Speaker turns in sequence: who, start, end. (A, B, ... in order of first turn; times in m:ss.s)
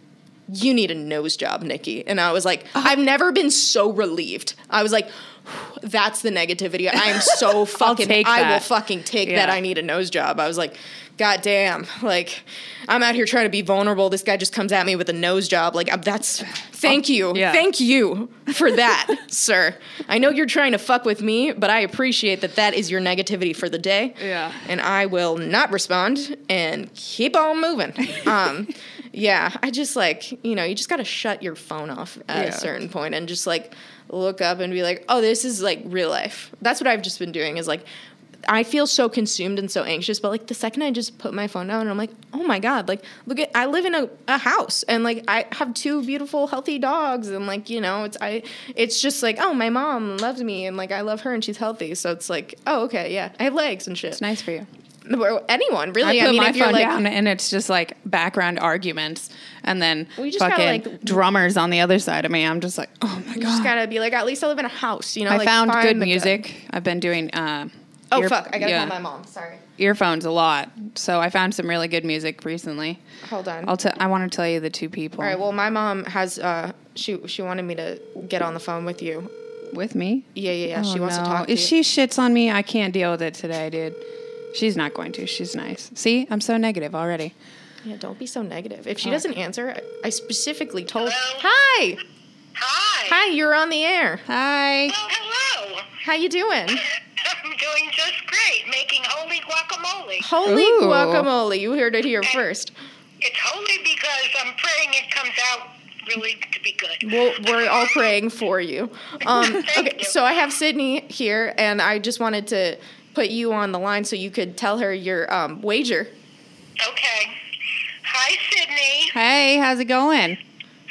0:00.5-0:37.8 A
0:07.5-0:08.7 B
0:09.2-0:09.6 B
0:16.8-0:17.6 B
0:24.2-0:24.6 B
0:32.3-0:32.7 B
0:38.4-0:54.2 A
0:54.1-0:54.7 B
0:55.0-0:57.0 A
0:56.0-1:03.7 B
1:00.2-1:01.2 A
1:03.3-1:06.4 A
1:05.3-1:08.9 B
1:08.1-1:09.6 A
1:09.8-1:13.0 B
1:13.2-1:13.7 A
1:13.6-1:15.4 B
1:15.2-1:19.3 A
1:19.7-1:24.0 B
1:20.3-1:21.7 A
1:24.5-1:27.3 B
1:27.8-1:32.0 A
1:31.0-1:31.5 C
1:32.6-1:33.2 C
1:33.1-1:34.2 A
1:34.3-1:34.9 B
1:34.9-1:35.9 C
1:36.0-1:36.8 A
1:36.7-1:40.3 C
1:40.2-1:42.7 A
1:40.4-1:41.3 B
1:43.2-1:48.1 C
1:47.0-1:56.1 A
1:49.3-1:50.1 C
1:56.8-1:57.3 C
1:58.0-1:59.1 C
1:59.1-2:00.4 B